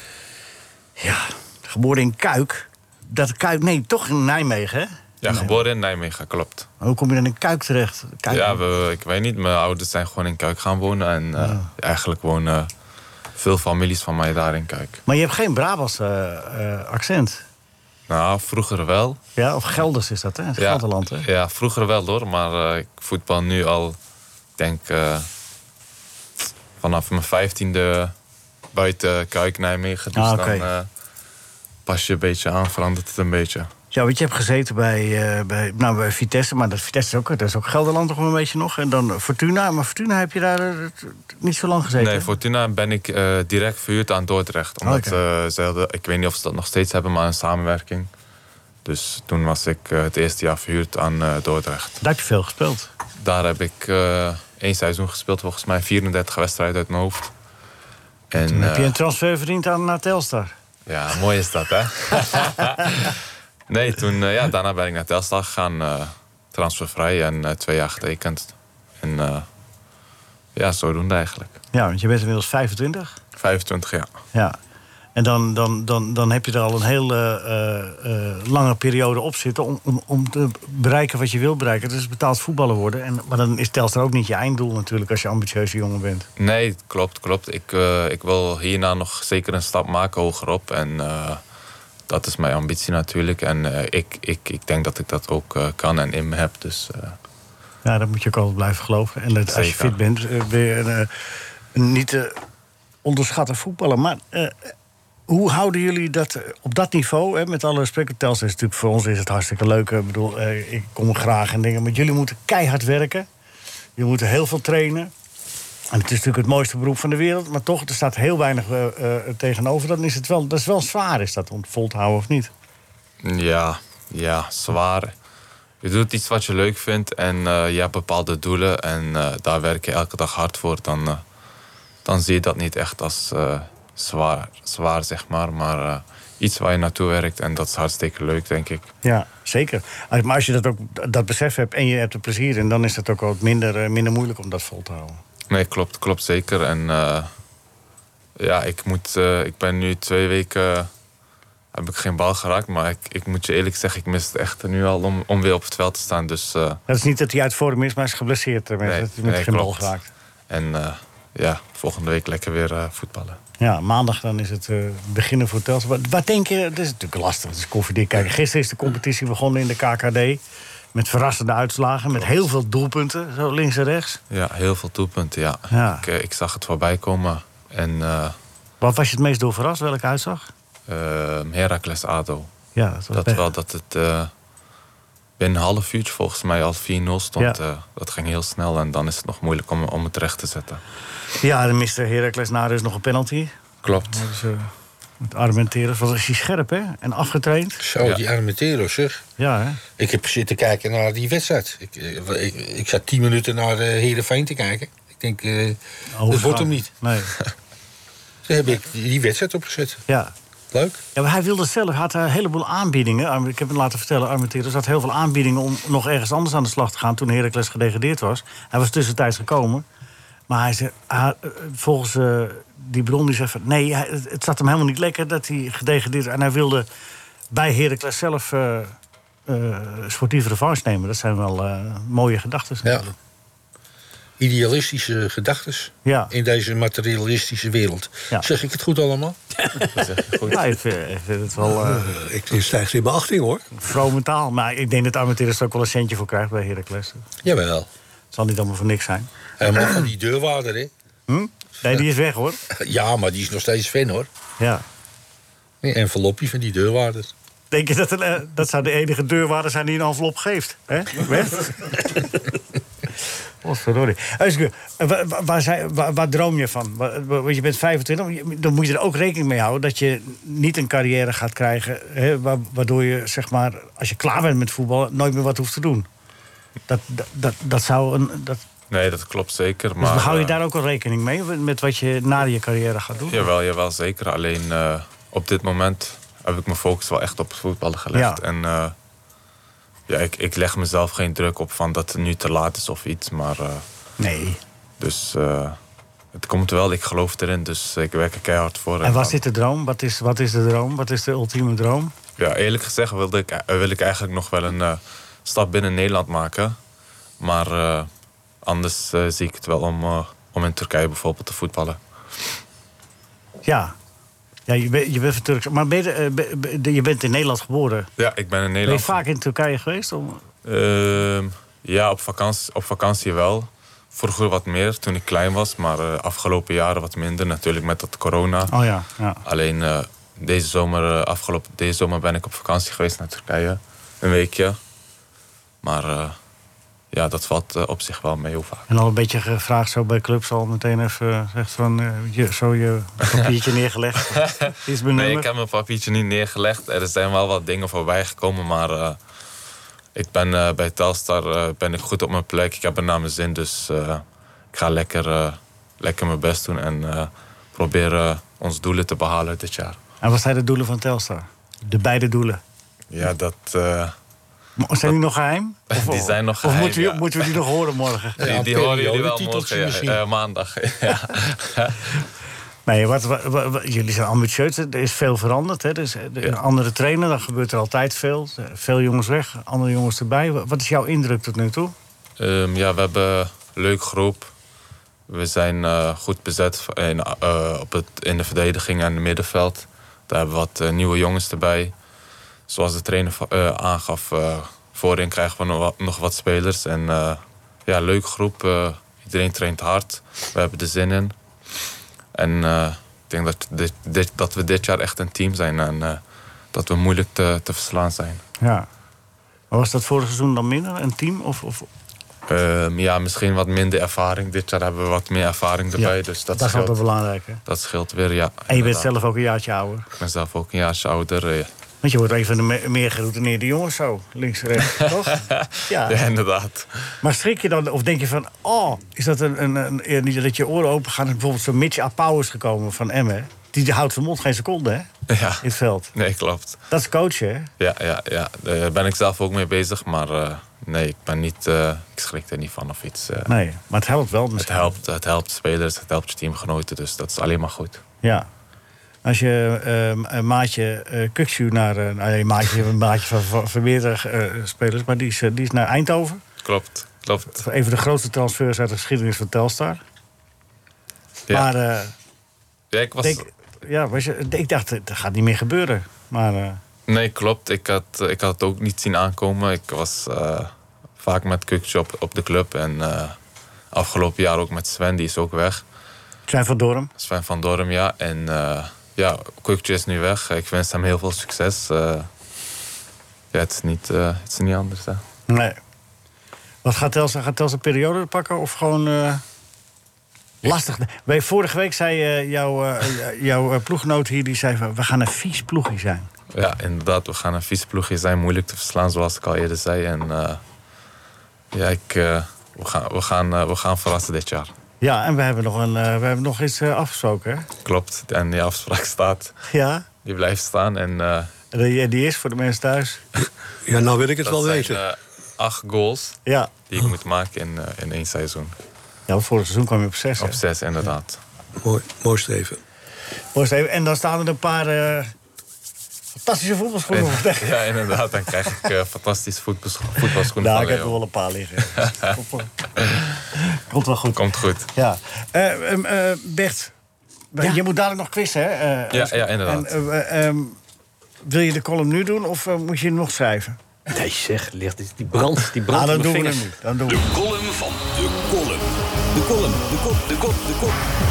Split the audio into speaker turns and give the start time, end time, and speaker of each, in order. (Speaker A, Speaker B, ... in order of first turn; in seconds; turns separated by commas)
Speaker A: 1.0-5.6, Speaker B: 5.2-6.7, Speaker A: 6.8-8.6, Speaker B: 8.3-12.7, Speaker A: 11.4-11.7, Speaker B: 13.4-15.0, Speaker A: 15.1-17.4, Speaker B: 18.1-19.2, Speaker A: 19.4-21.3, Speaker B: 20.6-24.0, Speaker B: 24.6-25.3, Speaker B: 26.8-28.1, Speaker B: 28.7-30.9, Speaker A: 30.2-30.7, Speaker B: 31.9-33.7, Speaker A: 33.9-42.3, Speaker B: 42.0-48.1, Speaker A: 44.8-45.2, Speaker B: 48.9-52.0, Speaker A: 52.0-52.9, Speaker B: 53.2-57.3, Speaker B: 58.3-59.0, Speaker A: 58.4-60.5, Speaker B: 60.9-63.2, Speaker B: 63.7-69.5, Speaker B: 70.5-71.6, Speaker A: 71.7-73.2, Speaker B: 73.4-74.1, Speaker A: 75.2-86.3, Speaker B: 86.4-91.4, Speaker B: 92.1-97.2, Speaker A: 97.8-101.1, Speaker B: 99.5-100.0, Speaker A: 101.7-102.3, Speaker A: 103.0-104.7, Speaker A: 105.3-113.3, Speaker A: 114.0-115.1, Speaker A: 115.9-122.5, Speaker B: 123.2-125.1, Speaker B: 125.8-131.2, Speaker B: 132.1-138.9, Speaker A: 139.0-145.2, Speaker B: 145.5-147.3, Speaker B: 148.4-150.9, Speaker B: 151.7-156.8, Speaker A: 156.9-160.1, Speaker B: 158.8-159.9, Speaker B: 160.5-163.4, Speaker A: 163.6-170.4, Speaker A: 170.9-174.2, Speaker B: 174.3-178.4, Speaker A: 175.7-176.1, Speaker A: 178.8-180.5, Speaker B: 180.9-182.5, Speaker A: 182.8-183.4, Speaker B: 183.1-184.3, Speaker B: 185.4-190.8, Speaker A: 191.4-193.5, Speaker B: 193.8-194.2, Speaker A: 194.1-194.7, Speaker A: 195.2-197.8, Speaker C: 197.8-199.2, Speaker A: 199.4-199.8, Speaker C: 200.0-206.9, Speaker A: 206.2-207.3, Speaker C: 208.5-210.0, Speaker C: 210.7-211.0, Speaker A: 211.2-219.8, Speaker A: 220.5-226.9, Speaker A: 227.5-228.9, Speaker A: 229.5-233.1, Speaker C: 232.8-233.1, Speaker C: 234.4-239.4, Speaker A: 236.1-236.3, Speaker B: 239.9-240.6, Speaker A: 240.5-242.0, Speaker D: 241.7-243.7, Speaker A: 243.8-247.2, Speaker C: 247.4-247.9, Speaker A: 248.3-250.0, Speaker C: 249.6-250.9, Speaker A: 251.3-252.6, Speaker C: 252.7-254.3, Speaker C: 255.8-257.3, Speaker A: 257.7-262.3, Speaker A: 263.6-276.1, Speaker A: 276.9-278.6, Speaker B: 278.9-280.6, Speaker A: 280.0-283.5, Speaker B: 283.3-288.9, Speaker A: 288.1-288.4, Speaker B: 290.1-293.8, Speaker A: 294.2-294.6, Speaker B: 295.0-295.8, Speaker B: 296.3-299.4, Speaker A: 299.0-302.1, Speaker B: 302.4-306.8, Speaker B: 307.4-308.1, Speaker B: 308.6-312.0, Speaker A: 313.6-313.9, Speaker A: 314.7-318.1, Speaker B: 318.2-319.2, Speaker A: 318.9-320.4, Speaker B: 320.6-328.7, Speaker A: 328.7-329.4, Speaker B: 329.4-334.8, Speaker B: 335.8-336.4, Speaker B: 337.1-338.9, Speaker A: 338.9-345.5, Speaker B: 344.3-349.2, Speaker B: 350.1-360.0, Speaker A: 360.2-362.6, Speaker B: 363.1-364.1, Speaker A: 364.8-368.4, Speaker B: 365.9-367.6, Speaker C: 368.4-370.2, Speaker B: 368.4-372.1, Speaker A: 372.9-381.9, Speaker B: 382.4-384.5, Speaker B: 385.3-391.9, Speaker B: 392.7-401.3, Speaker B: 402.4-406.2, Speaker B: 406.7-408.4, Speaker A: 408.6-408.9, Speaker A: 409.7-411.9, Speaker B: 412.5-417.0, Speaker A: 416.0-417.6, Speaker B: 417.7-419.1, Speaker A: 418.7-420.1, Speaker B: 420.2-421.7, Speaker A: 422.0-426.2, Speaker B: 425.1-427.1, Speaker A: 427.2-435.1, Speaker B: 435.3-436.8, Speaker A: 435.6-436.1, Speaker A: 436.9-437.7, Speaker B: 437.8-443.5, Speaker A: 443.5-445.0, Speaker B: 444.6-448.0, Speaker A: 448.2-448.5, Speaker A: 449.2-456.4, Speaker B: 456.6-457.6, Speaker A: 457.5-460.0, Speaker A: 461.5-462.1, Speaker B: 462.9-463.5, Speaker A: 463.2-466.8, Speaker B: 467.1-473.4, Speaker B: 473.9-475.8, Speaker A: 476.5-477.1, Speaker B: 477.2-482.3, Speaker B: 483.5-485.2, Speaker A: 485.5-485.8, Speaker A: 486.8-489.4, Speaker A: 490.6-496.3, Speaker B: 496.5-500.6, Speaker B: 501.7-504.7, Speaker A: 505.0-507.7, Speaker B: 507.9-509.6, Speaker A: 509.7-510.1, Speaker B: 510.2-511.5, Speaker A: 511.7-513.2, Speaker D: 513.9-515.0, Speaker B: 514.5-518.8, Speaker A: 516.5-516.7, Speaker A: 519.3-520.6, Speaker B: 520.4-521.4, Speaker D: 521.8-522.8, Speaker A: 523.5-525.3, Speaker A: 526.4-527.9, Speaker B: 527.1-531.2, Speaker A: 530.6-532.7, Speaker A: 533.5-534.4, Speaker B: 534.4-534.9, Speaker A: 535.0-536.9, Speaker A: 537.5-540.8, Speaker B: 539.1-540.0, Speaker A: 541.4-543.8, Speaker E: 544.1-546.7, Speaker A: 545.9-547.2, Speaker F: 547.1-551.0